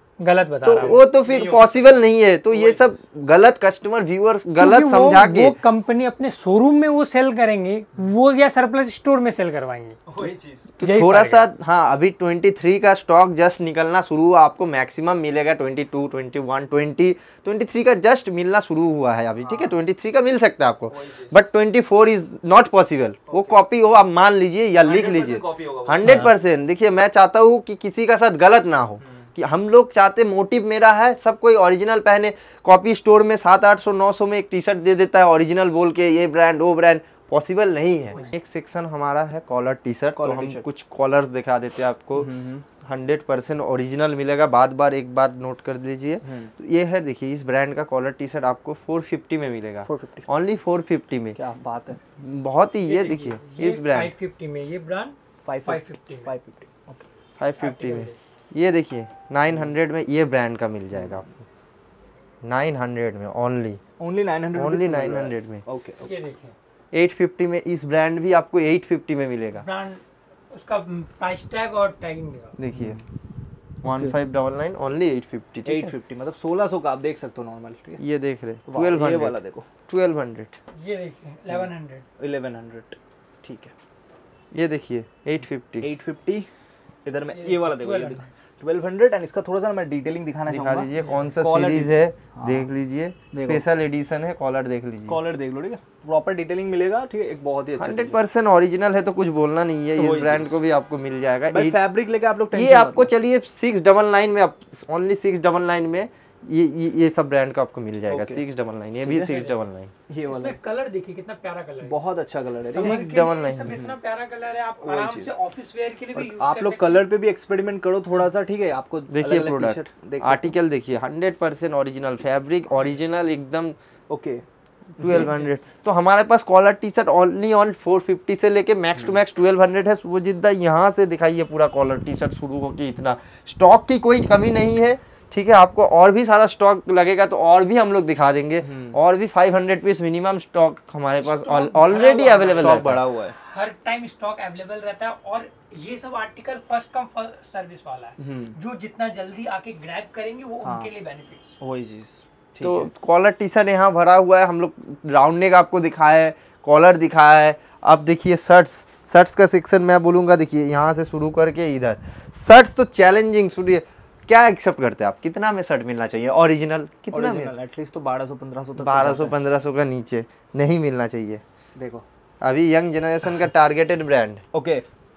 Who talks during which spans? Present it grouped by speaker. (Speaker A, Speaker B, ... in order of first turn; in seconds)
Speaker A: 0.2-1.0, 4.6-10.0, 10.8-11.5, 52.9-56.3, 57.6-58.1, 66.0-66.5, 69.6-72.6, 80.8-82.0, 87.3-88.3, 91.0-91.3, 109.3-109.5, 110.3-112.0, 112.6-117.0, 141.2-151.6
Speaker B: 0.6-5.6, 10.8-51.4, 52.2-54.1, 57.4-61.2, 62.4-63.8, 64.5-65.6, 66.9-69.7, 72.6-73.0, 73.8-75.9, 78.0-80.6, 84.5-85.9, 90.5-95.2, 97.8-101.8, 102.5-109.9, 112.7-113.8, 119.1-123.8, 125.0-143.0, 152.6-167.5, 168.8-171.4, 172.4-174.4
Speaker C: 0.7-1.8, 2.5-3.0, 10.1-10.7, 19.4-19.8, 20.9-21.4, 23.3-23.6, 24.8-26.3, 29.0-29.3, 40.1-40.7, 42.1-42.6, 46.2-46.5, 49.9-50.3, 51.4-52.0, 55.5-57.1, 60.9-61.3, 64.0-66.1, 72.7-73.0, 73.9-74.1, 75.6-78.0, 78.7-79.7, 81.5-83.7, 85.8-86.5, 87.0-92.7, 93.3-93.6, 95.1-98.2, 100.0-100.6, 101.5-103.1, 108.1-108.4, 109.0-109.4, 110.1-110.6, 111.8-114.0, 114.8-115.3, 116.1-120.5, 124.1-124.4, 125.0-125.4, 138.6-139.0, 142.4-143.4, 148.2-148.6, 150.6-150.9, 151.6-152.9, 167.1-169.4, 171.8-172.1, 174.5-174.9